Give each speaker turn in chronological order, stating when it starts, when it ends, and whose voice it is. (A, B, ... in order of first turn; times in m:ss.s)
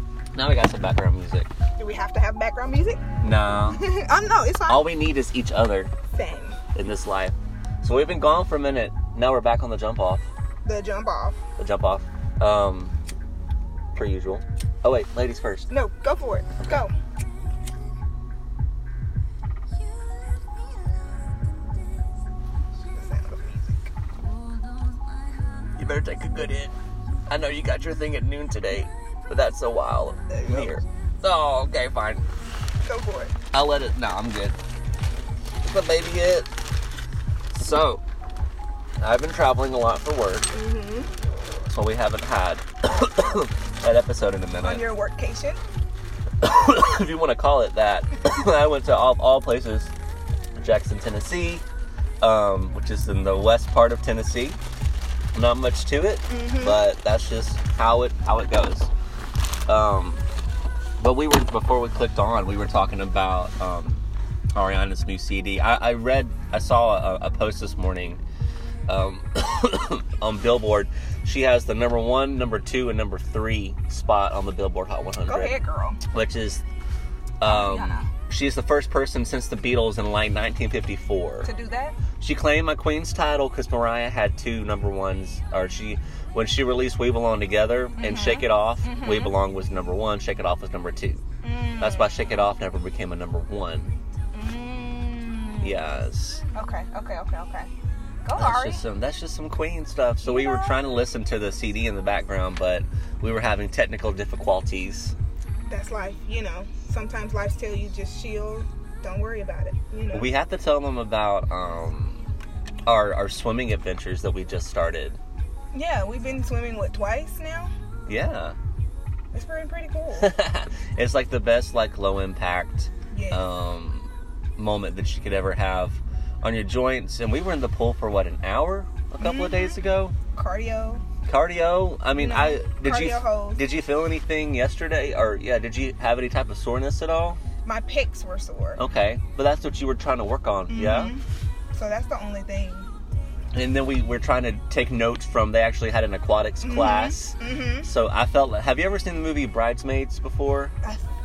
0:00.3-0:01.5 A
0:01.8-0:03.0 B
0:03.2-0:03.8 A
0:03.7-0:04.8 B
0:04.7-0:05.9 A
0:06.1-0:06.6 B
0:06.7-0:10.2 A
0:10.6-0:11.4 B
0:11.6-0:12.9 A
0:13.9-0:15.7 A
0:15.7-0:16.9 B
0:22.9-0:23.9 B
0:25.8-0:26.8 A
0:27.3-0:32.2 A
0:30.3-0:30.7 B
0:32.8-0:33.3 B
0:33.5-0:34.6 A
0:35.6-0:36.5 A
0:37.5-0:38.0 A
0:39.0-0:40.5 A
0:40.5-0:41.1 B
0:41.7-0:44.9 A
0:44.6-0:45.6 B
0:46.4-0:49.9 A
0:50.6-0:51.6 A
0:52.2-0:54.6 A
0:55.4-0:58.9 A
0:56.3-0:56.8 B
0:59.7-1:00.2 A
1:01.0-1:04.0 A
1:04.6-1:08.2 A
1:08.9-1:15.6 A
1:15.3-1:16.0 B
1:16.1-1:16.6 A
1:17.4-1:21.5 A
1:17.4-1:18.1 B
1:21.4-1:22.0 B
1:22.2-1:31.2 A
1:28.0-1:29.3 B
1:31.4-1:32.2 B
1:31.8-1:33.9 A
1:34.3-1:35.8 B
1:35.6-1:36.4 A
1:36.6-1:37.7 B
1:38.2-1:38.8 B
1:38.4-1:45.1 A
1:40.2-1:40.8 B
1:45.7-1:50.3 B
1:50.1-1:52.3 A
1:52.9-1:55.2 A
1:55.7-1:57.7 B
1:58.1-1:58.6 A
1:59.3-2:00.3 B
2:00.2-2:10.2 A
2:03.1-2:03.4 B
2:09.2-2:09.8 B
2:10.3-2:11.0 B
2:11.2-2:17.4 A
2:12.2-2:13.6 B
2:17.6-2:18.8 B
2:18.8-2:21.2 A
2:20.7-2:21.2 B
2:21.7-2:22.9 B
2:23.5-2:30.7 A
2:26.6-2:27.9 B